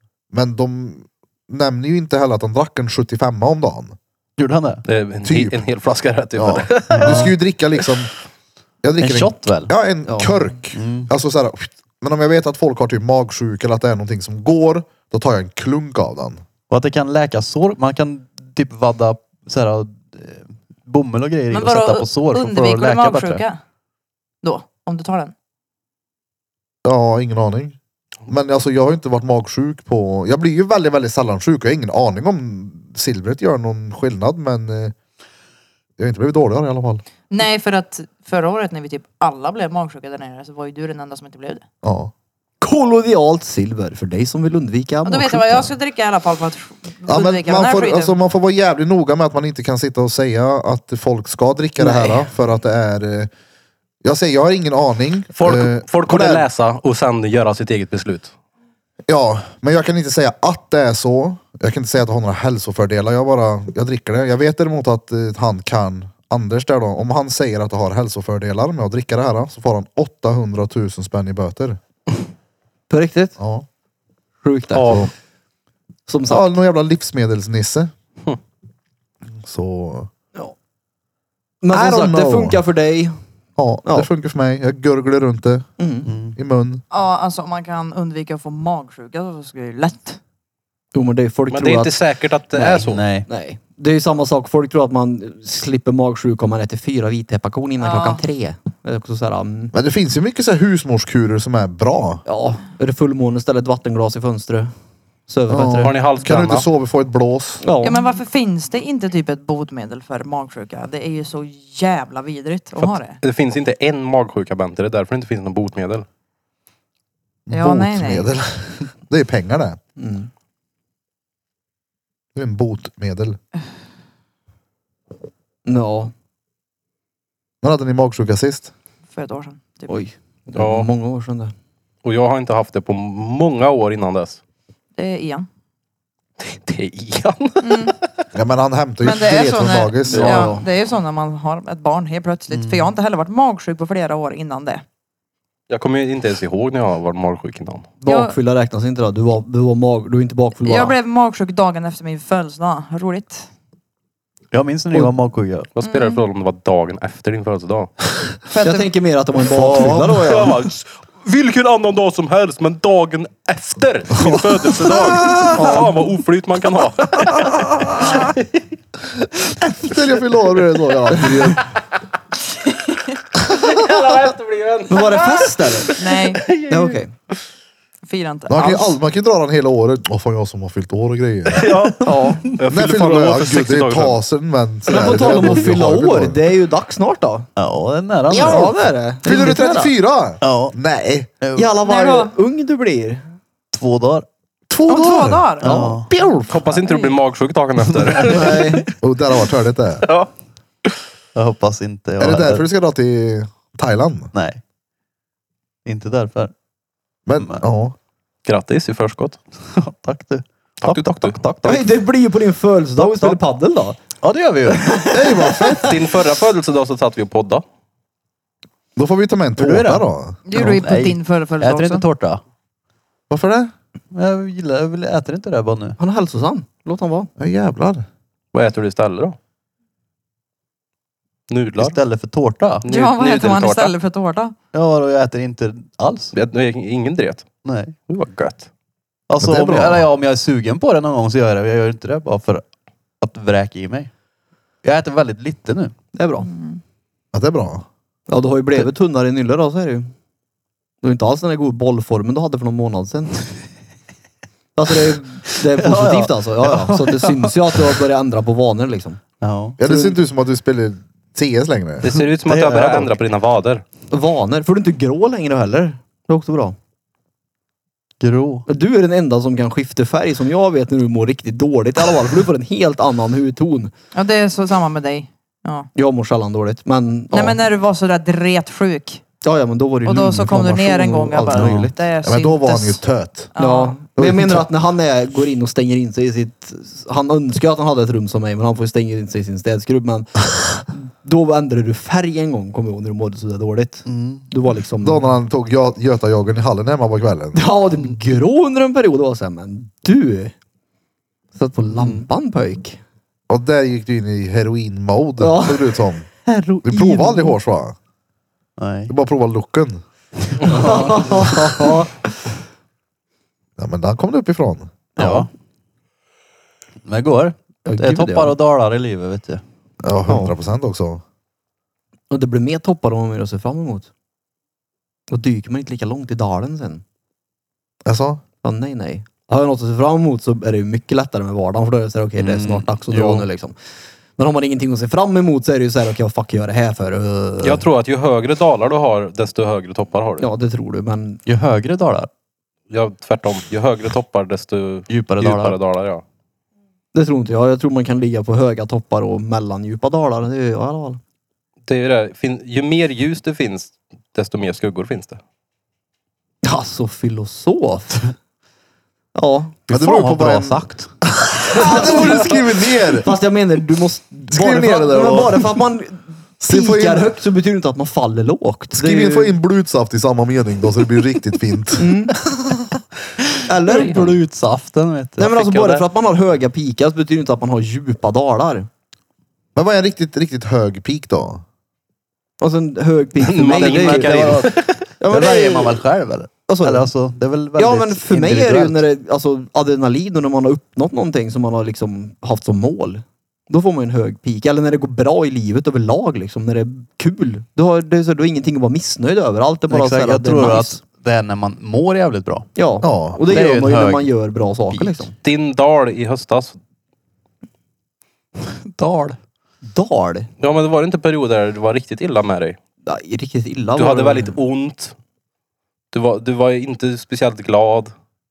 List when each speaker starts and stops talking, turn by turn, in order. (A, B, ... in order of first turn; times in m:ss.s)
0:00.3-0:04.0 A
0:04.4-0:04.8 B
0:04.9-0:07.3 C
0:05.2-0:05.6 A
0:06.4-0:08.1 A
0:06.9-0:07.3 B
0:08.8-0:16.4 A
0:09.0-0:09.7 B
0:10.1-0:10.4 D
0:10.7-0:11.1 B
0:16.7-0:23.4 B
0:21.5-0:23.6 E
0:24.4-0:25.3 E
0:26.8-0:34.9 A
0:36.0-0:37.0 A
0:37.3-0:41.6 E
0:41.8-0:42.1 A
0:42.6-0:45.8 D
0:45.0-0:48.2 E
0:47.1-0:53.3 A
0:51.8-0:52.3 D
0:54.0-0:56.5 A
0:55.4-0:58.3 C
0:59.1-1:11.8 A
1:12.9-1:13.4 D
1:13.4-1:13.7 A
1:14.4-1:15.1 D
1:14.8-1:15.1 C
1:16.1-1:16.6 D
1:16.3-1:17.9 A
1:19.4-1:20.1 A
1:21.6-1:23.2 D
1:21.7-1:22.6 A
1:23.6-1:25.7 A
1:25.8-1:26.1 D
1:26.1-1:26.4 B
1:26.4-1:26.8 A
1:26.9-1:30.2 E
1:30.9-1:32.0 D
1:31.5-1:33.0 C
1:32.5-1:39.7 D
1:32.7-1:33.3 B
1:37.8-1:38.2 E
1:39.7-1:42.2 A
1:42.3-1:44.7 D
1:45.3-1:46.0 D
1:45.5-1:47.6 A
1:45.8-1:46.7 C
1:47.6-1:48.0 D
1:47.8-1:53.2 E
1:52.8-1:56.1 C
1:57.5-1:59.8 A
1:57.5-1:58.3 E
2:00.0-2:00.3 D
2:02.4-2:03.4 A
2:05.7-2:06.1 D
2:07.6-2:08.7 A
2:09.1-2:09.9 E
2:09.9-2:11.5 D
2:10.6-2:10.9 C
2:12.0-2:14.4 C
2:15.0-2:15.5 E
2:16.4-2:18.0 C
2:17.6-2:18.0 E
2:18.3-2:20.5 A
2:19.0-2:24.8 E
2:20.1-2:20.4 C
2:20.1-2:20.7 D
2:22.5-2:22.9 B
2:25.7-2:27.9 C
2:28.0-2:31.0 D
2:28.1-2:28.3 E
2:30.6-2:33.5 E
2:34.5-2:35.7 B
2:35.8-2:37.9 C
2:35.8-2:36.2 E
2:38.5-2:38.9 E
2:38.6-2:40.5 D
2:39.6-2:40.3 A
2:40.2-2:48.6 C
2:44.3-2:45.7 A
2:45.6-2:45.9 D
2:47.3-2:48.3 A
2:49.6-2:51.7 A
2:53.4-2:57.0 C
2:54.9-2:55.9 D
2:55.3-2:56.4 E
2:56.7-2:57.1 D
2:58.0-2:59.0 E
2:58.5-3:01.9 A
3:01.5-3:04.2 C
3:02.0-3:02.4 D
3:02.1-3:02.4 E
3:02.7-3:06.4 A
3:04.9-3:07.5 D
3:07.6-3:08.8 B
3:08.3-3:09.9 D
3:09.2-3:11.3 A
3:10.4-3:10.8 B
3:11.4-3:11.7 B
3:11.6-3:13.2 D
3:11.8-3:12.3 E
3:13.7-3:14.3 B
3:14.7-3:16.5 A
3:14.9-3:15.7 E
3:15.6-3:16.1 B
3:15.7-3:16.0 D
3:16.5-3:18.9 C
3:16.9-3:17.1 E
3:17.9-3:18.6 B
3:18.3-3:18.8 D
3:19.0-3:20.1 A
3:20.0-3:20.3 C
3:21.4-3:22.6 B
3:22.2-3:24.3 A
3:24.3-3:24.6 B
3:25.9-3:26.5 B
3:27.3-3:28.0 A
3:28.5-3:29.4 C
3:29.6-3:31.8 B
3:30.8-3:31.8 C
3:31.6-3:34.0 D
3:33.0-3:33.4 B
3:34.2-3:35.0 B
3:34.7-3:35.9 D
3:35.1-3:36.0 A
3:35.8-3:37.6 C
3:39.0-3:40.4 A
3:39.6-3:42.4 B
3:40.5-3:42.0 E
3:43.3-3:43.7 A
3:44.1-3:46.0 B
3:46.0-3:47.3 D
3:47.4-3:48.1 A
3:48.5-3:49.4 C
3:51.5-3:52.0 C
3:51.8-3:52.9 B
3:52.8-3:53.9 C
3:52.9-3:54.6 E
3:54.7-3:56.4 B
3:56.3-3:57.6 C
3:57.6-3:58.0 B
3:58.1-3:58.7 C
3:59.3-4:02.6 B
3:59.4-4:00.1 A
4:03.2-4:04.1 B
4:04.8-4:05.9 B
4:06.1-4:06.5 D
4:06.5-4:06.8 E
4:07.3-4:07.9 A
4:08.3-4:10.1 D
4:11.0-4:13.4 D
4:14.8-4:19.2 D
4:15.6-4:18.0 B
4:19.4-4:19.8 B
4:19.8-4:22.1 A
4:19.8-4:20.2 D
4:22.0-4:23.8 C
4:22.4-4:23.2 B
4:24.1-4:26.8 D
4:28.2-4:28.7 B
4:28.7-4:33.9 D
4:34.1-4:35.9 E
4:36.0-4:37.6 D
4:37.3-4:39.2 E
4:39.4-4:42.0 D
4:40.0-4:43.0 E
4:41.5-4:41.9 B
4:42.2-4:43.5 A
4:43.5-4:44.0 E
4:43.6-4:55.3 D
4:44.2-4:44.7 A
4:54.1-4:54.5 B
4:55.0-4:57.6 A
4:57.5-5:00.6 D
5:01.6-5:03.0 D
5:02.0-5:02.2 B
5:03.5-5:06.3 A
5:05.4-5:07.6 D
5:06.8-5:08.0 A
5:08.8-5:09.1 B
5:09.1-5:10.0 A
5:10.6-5:11.5 B
5:10.6-5:12.3 D
5:13.8-5:14.9 A
5:15.2-5:15.5 B
5:17.0-5:19.6 B
5:17.8-5:18.6 D
5:20.0-5:21.2 A
5:20.3-5:20.5 D
5:22.3-5:24.1 D
5:25.3-5:27.0 D
5:28.0-5:28.4 A
5:28.6-5:33.7 D
5:32.4-5:33.5 B
5:34.4-5:37.8 D
5:37.6-5:40.5 C
5:40.4-5:41.4 D
5:41.5-5:42.3 B
5:42.9-5:46.2 C
5:45.1-5:45.8 B
5:47.1-5:51.2 D
5:51.9-5:55.4 C
5:56.6-5:58.3 D
5:59.4-5:59.8 D
5:59.9-6:01.1 B
5:59.9-6:03.3 A
6:01.7-6:02.6 D
6:03.2-6:09.6 D
6:04.5-6:05.6 A
6:06.6-6:07.3 A
6:08.9-6:12.9 A
6:12.0-6:12.4 D
6:13.7-6:14.4 D
6:13.8-6:15.5 B
6:15.4-6:18.9 D
6:15.5-6:16.0 C
6:19.8-6:21.6 A
6:22.6-6:24.7 D
6:23.4-6:25.0 C
6:23.8-6:29.0 B
6:25.2-6:26.0 D
6:26.7-6:27.1 D
6:27.8-6:41.0 D
6:39.9-6:42.7 B
6:42.8-6:45.3 D
6:43.0-6:43.4 A
6:43.4-6:44.3 B
6:44.9-6:45.3 B
6:45.4-6:46.8 C
6:48.7-6:49.4 B
6:49.9-6:50.5 D
6:50.6-6:52.8 C
6:53.0-6:54.6 D
6:54.0-6:55.1 C
6:56.1-6:58.1 C